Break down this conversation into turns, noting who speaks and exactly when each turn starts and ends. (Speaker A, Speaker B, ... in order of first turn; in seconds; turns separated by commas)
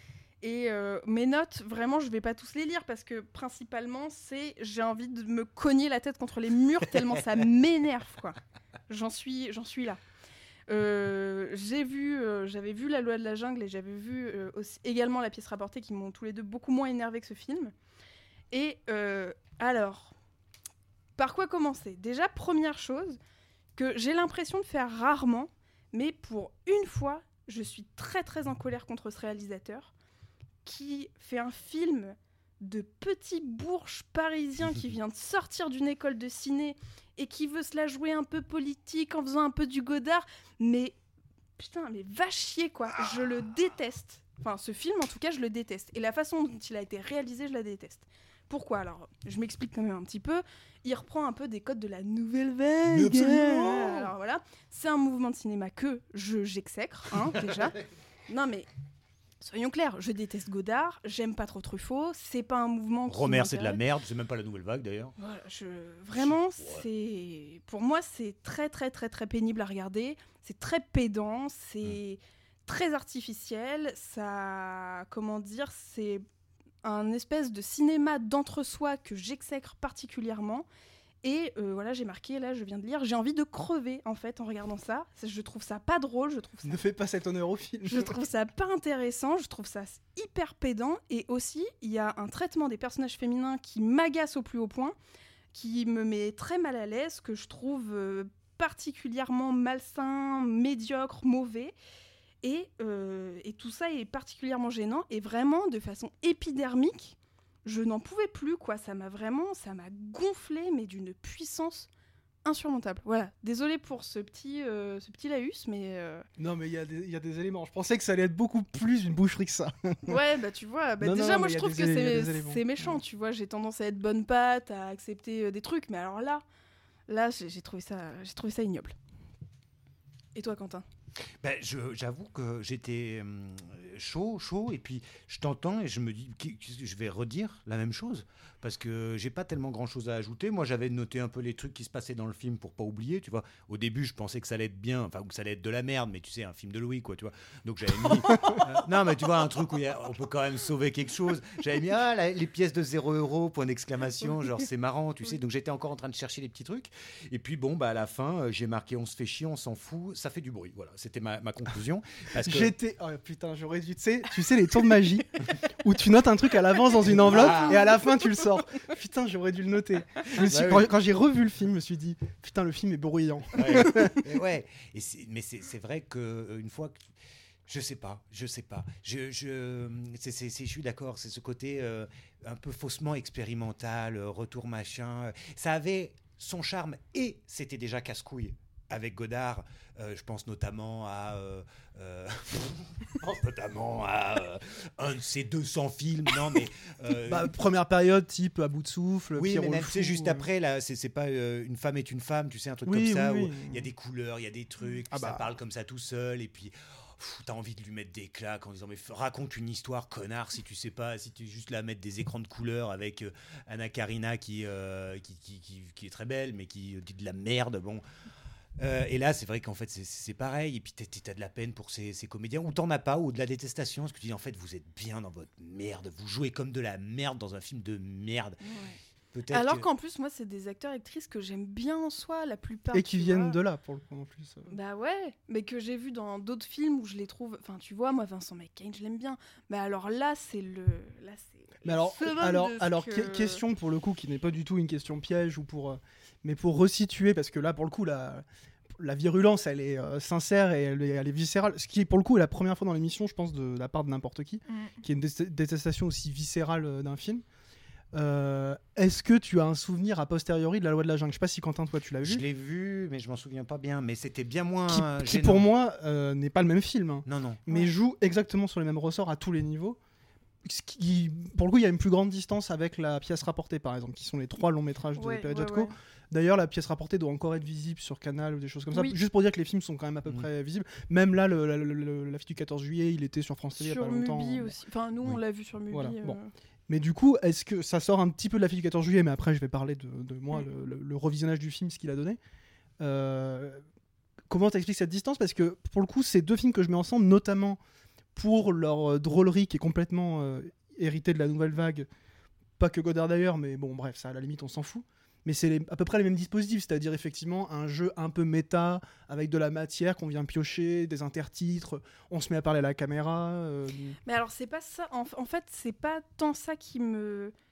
Speaker A: 0.4-8.4, Speaker A: 8.9-10.0, Speaker A: 10.7-17.7, Speaker A: 18.5-20.1, Speaker A: 21.2-23.2, Speaker A: 23.8-29.9, Speaker A: 30.6-41.0, Speaker A: 41.6-58.7, Speaker B: 52.9-54.1, Speaker B: 57.2-57.6, Speaker A: 59.4-63.8, Speaker B: 63.1-65.1, Speaker A: 65.2-76.2, Speaker B: 66.1-66.9, Speaker A: 76.8-80.7, Speaker A: 81.2-86.8, Speaker C: 86.6-88.1, Speaker A: 87.8-94.9, Speaker A: 95.5-101.8, Speaker A: 102.4-111.9, Speaker A: 112.4-116.2, Speaker C: 116.4-120.2, Speaker A: 120.1-126.4, Speaker C: 121.0-123.0, Speaker A: 127.1-128.9, Speaker A: 130.3-130.8, Speaker B: 131.4-162.7, Speaker C: 162.4-174.2, Speaker B: 167.0-167.8, Speaker B: 170.4-170.9, Speaker B: 173.6-177.1, Speaker B: 177.7-197.5, Speaker C: 197.3-200.5, Speaker B: 199.4-218.0, Speaker C: 202.9-203.9, Speaker C: 205.1-205.4, Speaker B: 218.8-228.6, Speaker A: 228.6-229.0, Speaker B: 229.3-229.9, Speaker A: 229.5-233.6, Speaker C: 232.9-234.7, Speaker A: 234.7-243.6, Speaker C: 241.8-248.4, Speaker C: 249.0-257.4, Speaker A: 254.7-254.9, Speaker C: 258.1-262.4, Speaker B: 262.2-265.7, Speaker C: 264.9-270.0, Speaker B: 267.3-267.6, Speaker C: 270.6-284.7, Speaker A: 275.1-275.9, Speaker A: 283.8-286.5, Speaker C: 285.9-292.4, Speaker C: 293.0-293.8, Speaker C: 294.5-297.8, Speaker C: 298.4-302.1, Speaker C: 302.8-314.2, Speaker A: 314.2-317.5